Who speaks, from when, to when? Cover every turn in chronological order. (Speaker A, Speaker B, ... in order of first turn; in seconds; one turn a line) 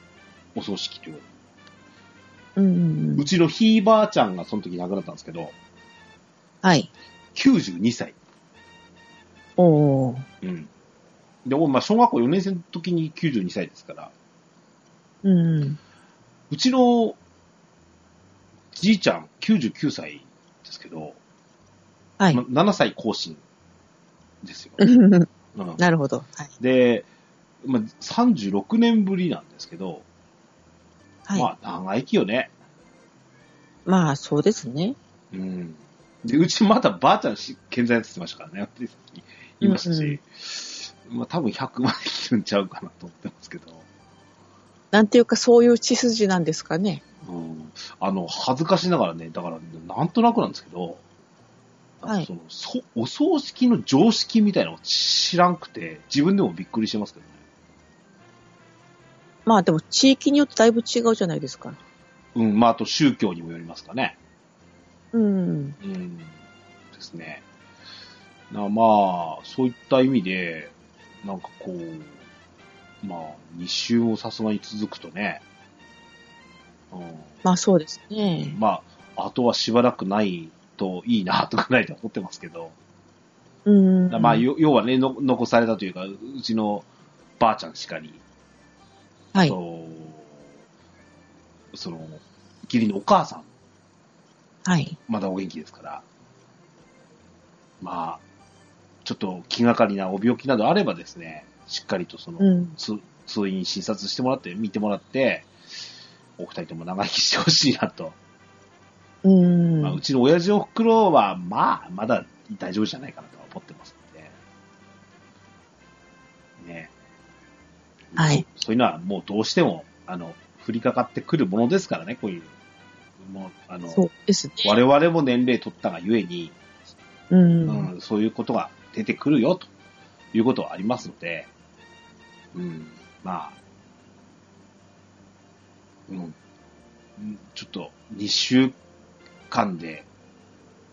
Speaker A: 0.6-1.2
Speaker B: 2.6-3.2
Speaker A: 3.2-5.5
Speaker B: 6.6-6.9
Speaker A: 7.3-8.2
Speaker B: 9.6-10.2
Speaker A: 10.4-10.7
Speaker A: 11.4-14.1
Speaker B: 15.2-15.8
Speaker A: 16.5-17.2
Speaker A: 18.7-21.2
Speaker A: 22.3-23.4
Speaker A: 24.4-24.8
Speaker B: 24.8-26.5
Speaker A: 25.6-25.8
Speaker A: 26.6-27.1
Speaker A: 27.6-30.0
Speaker A: 31.4-32.5
Speaker B: 33.9-35.0
Speaker A: 35.3-43.8
Speaker B: 39.6-40.2
Speaker B: 44.9-47.0
Speaker A: 47.2-51.0
Speaker A: 52.0-57.3
Speaker B: 59.5-61.8
Speaker A: 62.4-64.2
Speaker B: 65.1-65.8
Speaker A: 65.8-66.3
Speaker A: 66.9-67.4
Speaker A: 68.5-72.1
Speaker A: 73.0-75.4
Speaker A: 76.9-77.3
Speaker B: 77.4-78.6
Speaker A: 78.5-82.7
Speaker B: 83.7-84.4
Speaker A: 84.1-86.9
Speaker A: 87.4-88.2
Speaker A: 89.4-90.3
Speaker A: 91.7-93.5
Speaker B: 94.7-95.0
Speaker A: 95.1-96.0
Speaker A: 97.8-98.2
Speaker A: 99.0-105.5
Speaker B: 102.4-102.8
Speaker A: 106.4-108.2
Speaker B: 109.2-110.0
Speaker A: 109.8-114.3
Speaker A: 116.6-116.9
Speaker A: 118.1-122.5
Speaker B: 118.2-118.5
Speaker A: 123.2-124.0
Speaker B: 123.9-124.7
Speaker A: 124.6-126.5
Speaker B: 127.3-127.9
Speaker A: 127.7-129.7
Speaker A: 130.3-131.5
Speaker A: 132.5-133.6
Speaker A: 136.1-136.4
Speaker A: 137.2-138.8
Speaker A: 139.5-140.1